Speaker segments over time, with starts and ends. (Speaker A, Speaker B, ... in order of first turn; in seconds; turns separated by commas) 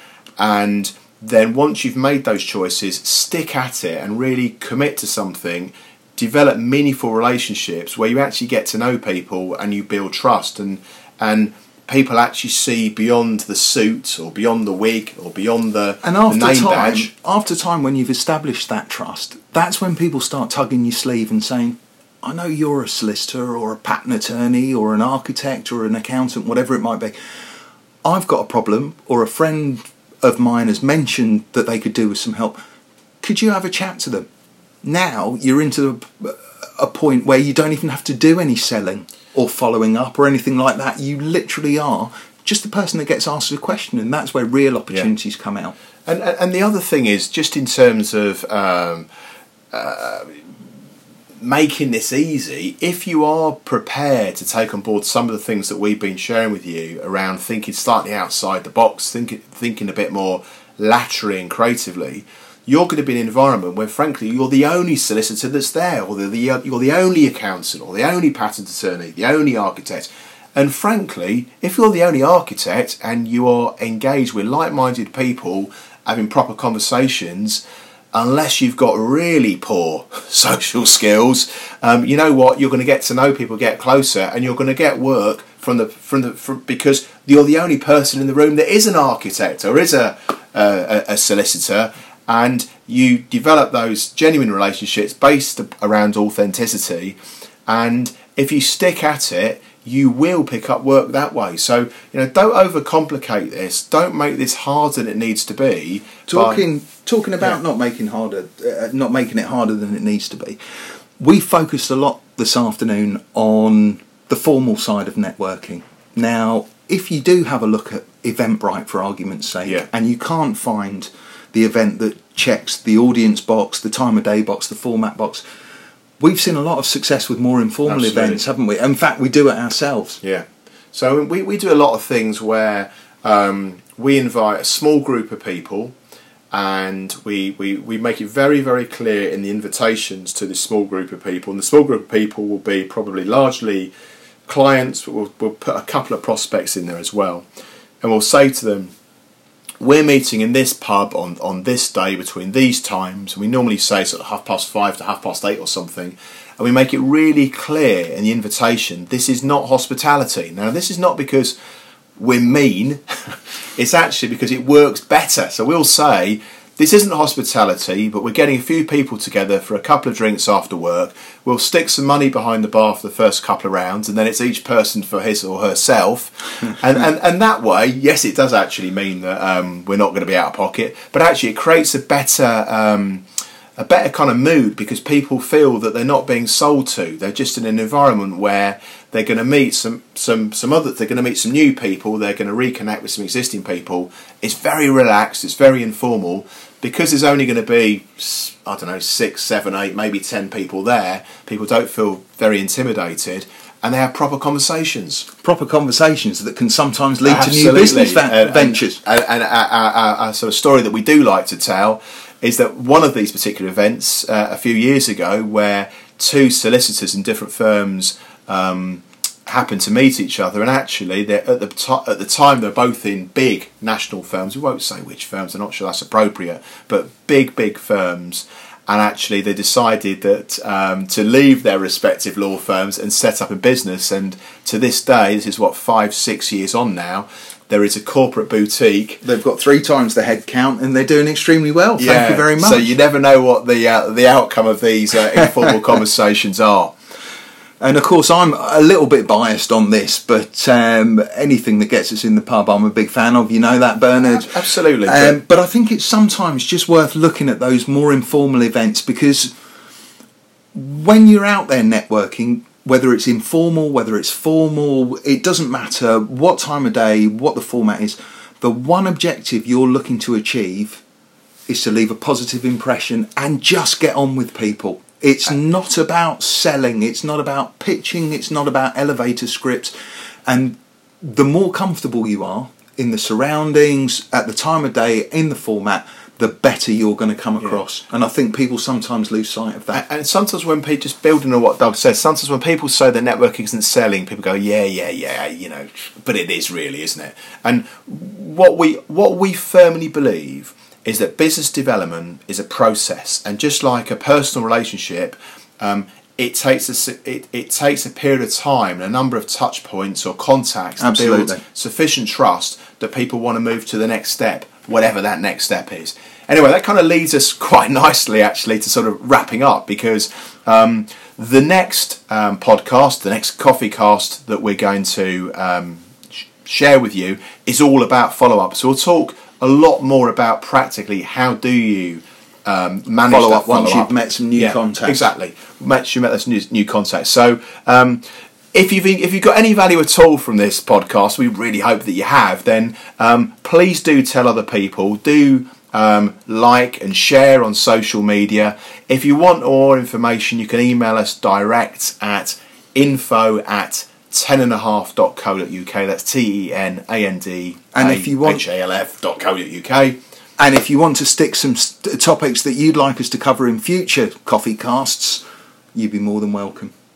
Speaker A: 0.4-17.1, Speaker B: 16.0-27.2, Speaker B: 28.1-32.6, Speaker B: 33.2-34.3, Speaker B: 34.8-45.8, Speaker A: 46.1-49.1, Speaker A: 49.7-50.4, Speaker A: 51.4-97.2, Speaker A: 97.7-106.6, Speaker B: 106.3-110.6, Speaker B: 111.2-125.4, Speaker B: 126.2-130.2, Speaker A: 127.9-128.4, Speaker A: 130.2-135.9, Speaker A: 136.5-143.9, Speaker A: 144.5-147.4, Speaker A: 148.0-148.9, Speaker A: 149.8-161.6, Speaker A: 162.2-183.3, Speaker A: 183.8-205.3, Speaker B: 205.4-209.0, Speaker A: 207.2-239.2, Speaker B: 239.2-242.9, Speaker A: 242.0-246.9, Speaker B: 247.8-259.5, Speaker A: 254.2-255.4, Speaker B: 260.7-271.0, Speaker B: 271.7-279.9, Speaker B: 280.5-290.0, Speaker A: 289.9-326.1, Speaker B: 311.0-311.6, Speaker A: 326.6-360.2, Speaker B: 333.3-335.3, Speaker B: 357.9-358.6, Speaker B: 360.6-365.4, Speaker B: 365.9-366.9